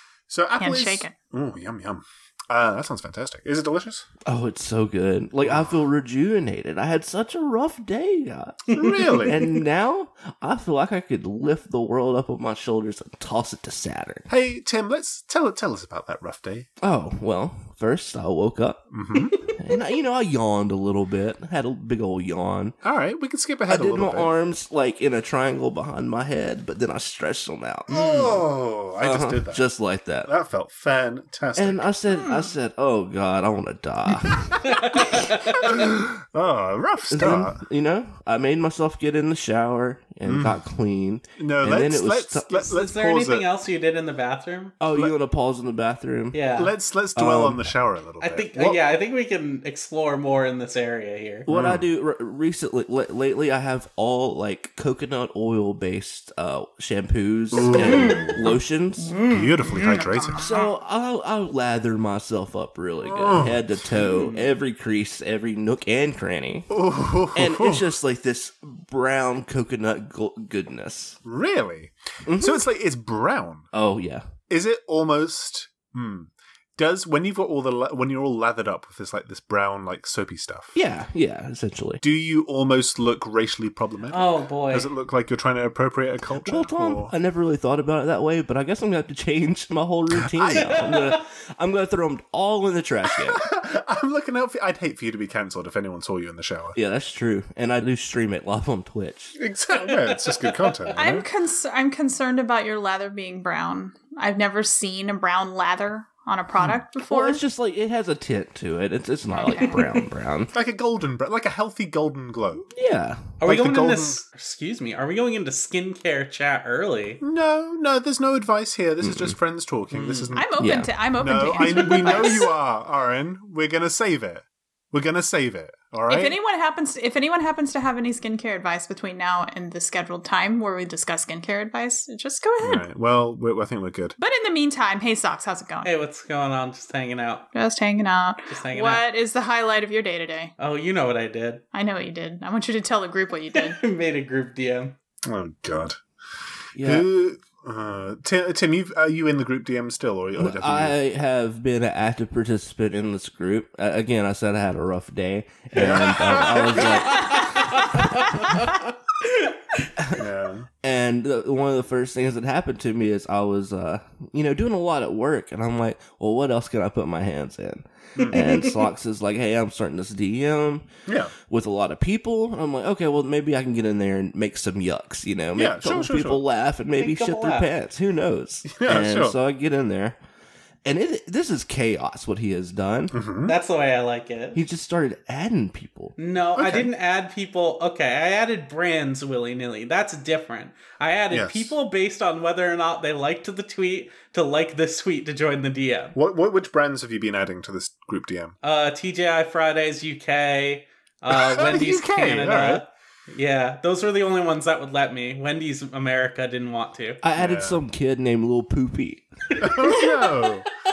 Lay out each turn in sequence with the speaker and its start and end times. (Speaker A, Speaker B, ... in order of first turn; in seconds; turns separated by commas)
Speaker A: 0.3-4.1, Speaker B: 0.6-1.1, Speaker C: 4.3-14.3, Speaker A: 5.4-5.8, Speaker D: 8.7-9.2, Speaker A: 8.7-9.5, Speaker A: 14.3-16.7, Speaker C: 16.8-18.8, Speaker A: 18.9-19.4, Speaker C: 19.4-22.8, Speaker A: 22.8-24.3, Speaker C: 23.7-28.2, Speaker A: 27.9-29.6, Speaker D: 27.9-28.2, Speaker C: 29.0-30.3, Speaker A: 30.3-31.9, Speaker C: 31.6-35.3, Speaker B: 32.1-32.6, Speaker D: 34.6-35.7, Speaker A: 35.6-37.6, Speaker C: 37.1-42.6, Speaker A: 40.2-40.6, Speaker A: 41.4-43.5, Speaker D: 42.6-44.8, Speaker C: 44.8-46.4, Speaker D: 46.3-46.7, Speaker A: 46.5-48.8, Speaker C: 47.2-47.7, Speaker D: 48.2-51.5, Speaker C: 51.5-59.2, Speaker A: 51.5-51.9, Speaker A: 57.5-58.5, Speaker D: 57.7-58.3, Speaker B: 59.1-60.7, Speaker A: 59.3-60.4, Speaker C: 60.4-66.7, Speaker A: 63.0-63.6, Speaker D: 64.0-64.6, Speaker A: 66.7-67.9, Speaker C: 67.3-71.2, Speaker A: 71.2-73.7, Speaker C: 72.3-72.6, Speaker C: 73.7-74.2, Speaker A: 74.5-80.8, Speaker C: 80.7-82.0, Speaker A: 82.0-87.1, Speaker D: 84.1-84.9, Speaker C: 86.4-93.5, Speaker A: 90.1-91.1, Speaker D: 90.5-91.2, Speaker A: 93.3-96.8, Speaker C: 96.8-99.4, Speaker A: 99.4-101.3, Speaker B: 101.0-107.4, Speaker C: 107.1-110.5, Speaker B: 109.3-109.8, Speaker D: 109.6-109.9, Speaker A: 110.5-112.7, Speaker C: 112.8-113.4, Speaker D: 113.4-117.2, Speaker A: 113.4-114.2, Speaker A: 117.2-120.6, Speaker C: 119.0-119.3, Speaker D: 119.9-120.3, Speaker B: 120.3-122.5, Speaker C: 120.6-120.9, Speaker A: 121.2-126.4, Speaker D: 121.6-122.3, Speaker B: 126.1-132.8, Speaker A: 132.6-134.2, Speaker B: 134.2-135.9, Speaker D: 135.8-137.5, Speaker B: 137.5-140.5, Speaker D: 138.5-139.1, Speaker D: 140.6-141.6, Speaker B: 141.7-143.8, Speaker D: 143.5-144.9, Speaker A: 145.2-146.0, Speaker C: 146.8-147.1, Speaker A: 146.8-151.0, Speaker C: 150.4-158.7, Speaker A: 155.8-157.1, Speaker D: 156.7-158.7, Speaker C: 160.0-160.2, Speaker A: 160.1-160.7, Speaker C: 160.8-170.9, Speaker A: 168.2-168.5, Speaker D: 168.3-168.9, Speaker A: 171.1-171.3, Speaker C: 171.5-180.2, Speaker A: 175.6-176.4, Speaker D: 177.0-177.7, Speaker A: 178.7-179.4, Speaker C: 180.8-183.1, Speaker A: 183.1-183.6, Speaker D: 183.5-184.6, Speaker C: 184.6-186.1, Speaker D: 186.2-196.2, Speaker A: 186.6-186.9, Speaker A: 191.3-191.7, Speaker A: 196.2-198.5, Speaker D: 198.6-207.2, Speaker A: 201.3-202.8, Speaker C: 207.2-209.3, Speaker A: 207.4-207.8, Speaker A: 209.6-210.7